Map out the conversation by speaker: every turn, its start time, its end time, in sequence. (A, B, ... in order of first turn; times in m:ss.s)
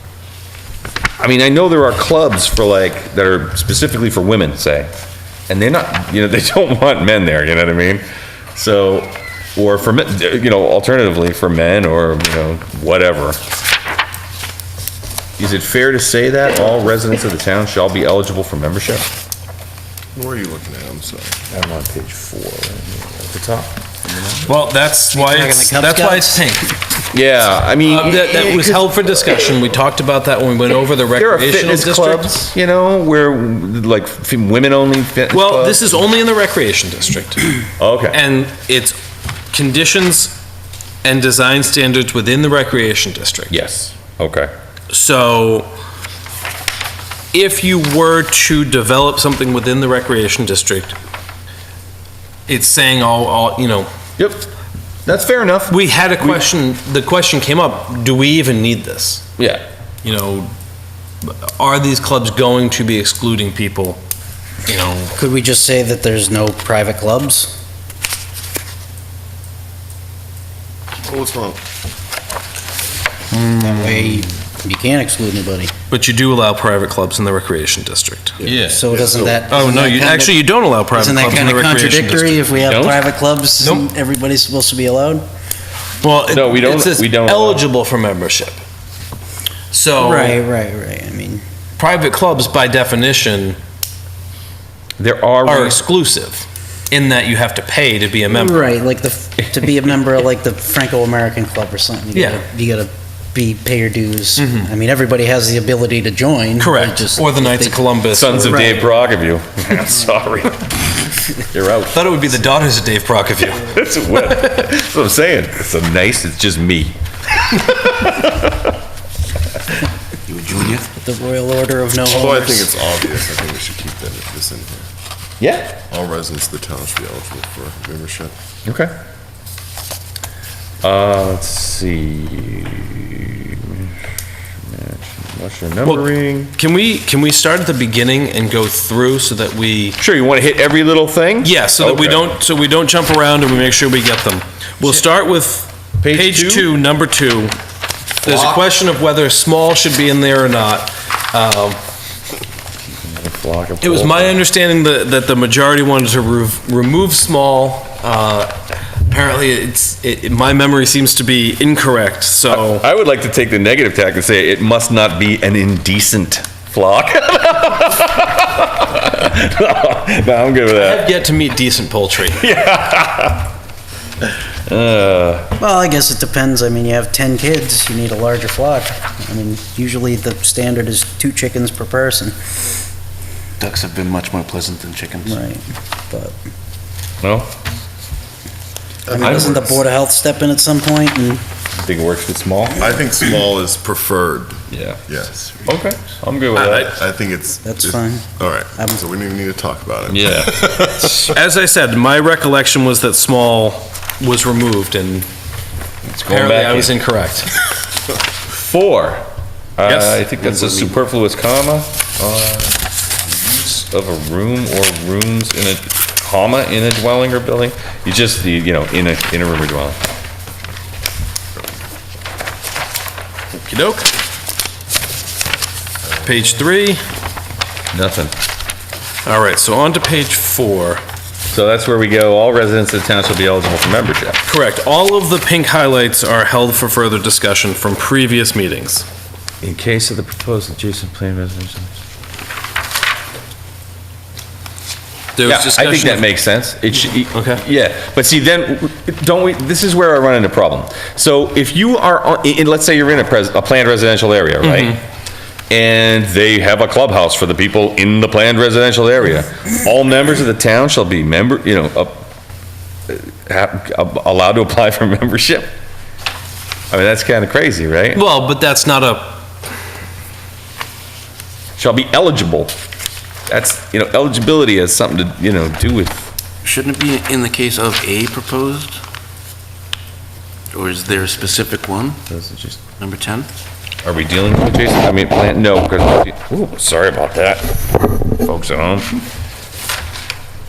0:01.2-0:04.9 A
0:05.5-0:08.0 A
0:08.5-0:13.4 A
0:15.4-0:19.0 A
0:20.1-0:21.4 B
0:21.5-0:24.5 A
0:24.5-0:26.7 C
0:25.1-0:26.8 D
0:27.1-0:29.4 A
0:27.9-0:32.5 C
0:31.2-0:35.8 A
0:35.3-0:37.5 C
0:37.8-0:38.2 A
0:38.1-0:39.0 C
0:39.5-0:40.4 C
0:41.0-0:43.5 C
0:43.5-0:44.5 A
0:44.9-0:45.7 C
0:47.3-0:51.0 C
0:52.5-0:53.9 C
0:54.2-0:54.5 A
0:55.0-0:56.4 A
0:55.7-0:59.2 C
0:59.4-0:59.6 A
1:00.0-1:00.5 C
1:01.2-1:04.0 C
1:04.6-1:05.1 C
1:05.2-1:07.5 D
1:11.0-1:11.6 B
1:13.3-1:14.2 C
1:13.5-1:15.7 D
1:15.9-1:18.5 C
1:18.4-1:25.2 D
1:18.4-1:18.8 A
1:18.9-1:19.3 B
1:19.5-1:22.4 C
1:22.6-1:23.0 A
1:23.6-1:23.8 C
1:26.0-1:28.6 C
1:26.3-1:27.6 A
1:29.7-1:30.4 C
1:30.0-1:31.4 D
1:31.8-1:33.6 C
1:35.0-1:35.8 A
1:35.4-1:38.7 C
1:38.3-1:48.9 D
1:42.1-1:42.4 C
1:44.4-1:44.7 C
1:46.6-1:48.7 C
1:48.1-1:52.0 A
1:51.9-1:53.8 C
1:53.6-1:58.7 A
2:00.4-2:00.8 B
2:01.0-2:02.8 D
2:02.0-2:04.9 B
2:05.4-2:05.8 A
2:05.9-2:08.3 B
2:08.6-2:08.9 A
2:10.8-2:13.9 A
2:14.6-2:16.5 A
2:15.8-2:20.0 C
2:20.0-2:22.3 A
2:21.4-2:27.6 C
2:26.0-2:26.7 A
2:28.2-2:31.8 C
2:28.2-2:28.7 A
2:33.0-2:34.4 A
2:33.8-2:38.6 C
2:39.1-2:42.8 C
2:42.5-2:51.1 A
2:50.7-2:52.5 C
2:52.2-2:53.5 A
2:54.6-2:55.6 A
2:55.6-3:02.3 D
3:03.6-3:05.4 E
3:05.2-3:06.4 D
3:07.2-3:07.5 A
3:09.0-3:09.8 B
3:09.1-3:11.4 D
3:09.1-3:09.7 A
3:11.8-3:12.9 A
3:12.8-3:15.5 B
3:14.7-3:15.0 A
3:15.6-3:17.0 A
3:16.6-3:16.9 C
3:16.8-3:21.1 B
3:17.6-3:19.0 D
3:20.1-3:21.3 A
3:21.2-3:25.3 C
3:26.0-3:26.9 A
3:26.2-3:27.5 C
3:28.5-3:40.0 A
3:29.8-3:30.2 C
3:30.5-3:30.9 B
3:43.5-3:44.1 C
3:46.2-3:47.0 C
3:47.9-3:48.3 A
3:49.2-3:51.0 C
3:51.5-3:54.4 A
3:54.4-3:59.1 C
3:59.6-4:01.9 A
4:05.4-4:06.3 C
4:05.4-4:15.0 A
4:07.3-4:07.6 C
4:14.6-4:15.0 C
4:15.7-4:22.3 A
4:23.1-4:25.7 A
4:26.9-4:28.2 A
4:28.1-4:29.5 C
4:31.8-4:32.7 A
4:33.5-4:36.3 A
4:36.6-4:38.9 E
4:40.7-4:42.2 E
4:42.3-4:42.8 A
4:43.0-4:43.5 E
4:44.0-4:49.1 A